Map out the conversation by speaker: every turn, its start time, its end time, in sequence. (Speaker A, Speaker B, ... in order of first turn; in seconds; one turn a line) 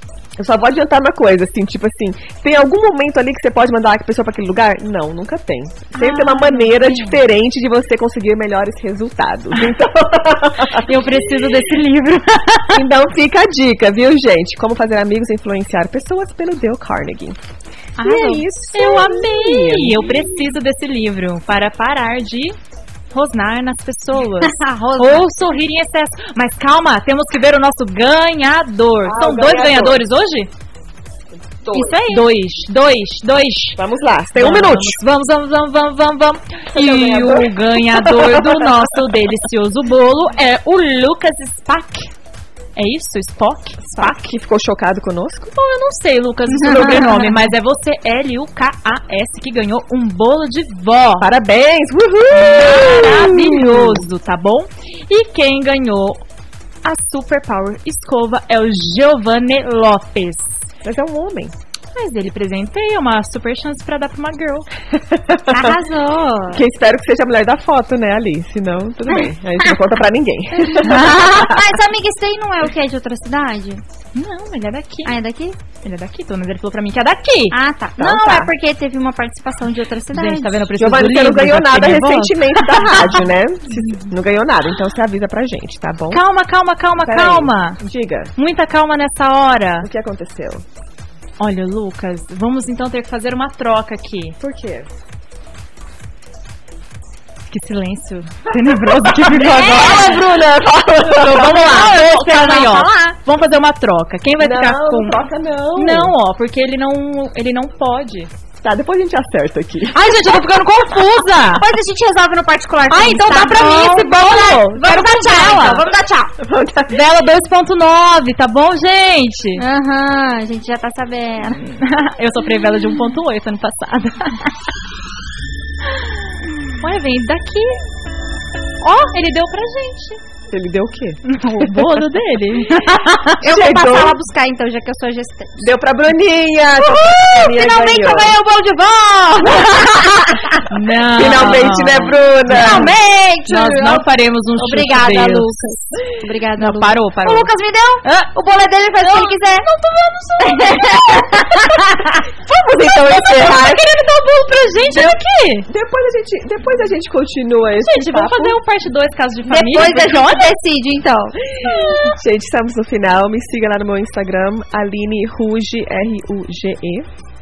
Speaker A: 0.4-11.0
Speaker B: 6.0-7.2
Speaker B: 10.8-12.8
Speaker A: 12.7-17.4
Speaker B: 18.0-22.6
Speaker A: 18.0-20.4
Speaker B: 23.1-30.5
Speaker C: 24.4-25.3
Speaker A: 29.0-30.0
Speaker A: 31.6-32.2
Speaker B: 31.7-33.8
Speaker A: 33.8-35.0
Speaker B: 34.4-42.1
Speaker A: 36.7-38.9
Speaker B: 42.8-44.3
Speaker A: 44.0-45.5
Speaker B: 45.5-51.3
Speaker C: 46.5-47.4
Speaker A: 46.8-47.2
Speaker A: 51.2-54.0
Speaker B: 52.3-56.2
Speaker B: 56.8-60.4
Speaker A: 60.8-61.5
Speaker B: 61.9-64.7
Speaker A: 65.1-65.8
Speaker C: 65.5-66.6
Speaker A: 66.5-71.8
Speaker C: 70.6-73.8
Speaker B: 74.1-75.1
Speaker C: 75.0-75.6
Speaker B: 75.8-77.5
Speaker C: 77.5-80.7
Speaker A: 78.0-78.5
Speaker B: 80.1-83.2
Speaker A: 80.8-86.2
Speaker B: 86.1-87.8
Speaker A: 87.0-88.3
Speaker B: 88.3-89.9
Speaker A: 89.8-90.6
Speaker B: 91.4-94.4
Speaker A: 94.4-94.9
Speaker B: 97.5-100.3
Speaker A: 98.5-102.0
Speaker C: 99.5-100.2
Speaker B: 101.0-105.2
Speaker C: 101.5-103.2
Speaker A: 104.4-106.1
Speaker B: 105.8-108.3
Speaker A: 108.6-110.4
Speaker B: 109.9-111.7
Speaker C: 111.5-116.3
Speaker B: 112.9-115.8
Speaker A: 114.3-114.8
Speaker A: 116.4-117.0
Speaker B: 116.9-119.6
Speaker C: 119.5-121.8
Speaker B: 121.6-124.5
Speaker B: 126.8-127.8
Speaker B: 128.8-130.2
Speaker A: 130.5-132.0
Speaker B: 131.3-133.3
Speaker C: 133.4-135.7
Speaker A: 133.4-134.2
Speaker A: 135.6-138.4
Speaker B: 137.0-140.1
Speaker C: 137.3-138.1
Speaker A: 139.4-140.4
Speaker C: 139.5-140.6
Speaker B: 140.7-145.6
Speaker A: 141.2-142.9
Speaker C: 142.5-144.0
Speaker C: 144.6-149.7
Speaker B: 146.6-147.5
Speaker B: 148.0-148.3
Speaker B: 149.0-151.3
Speaker C: 150.4-152.2
Speaker A: 152.4-153.9
Speaker B: 153.1-155.7
Speaker A: 154.9-158.6
Speaker B: 157.8-160.5
Speaker C: 159.4-161.4
Speaker A: 161.6-167.1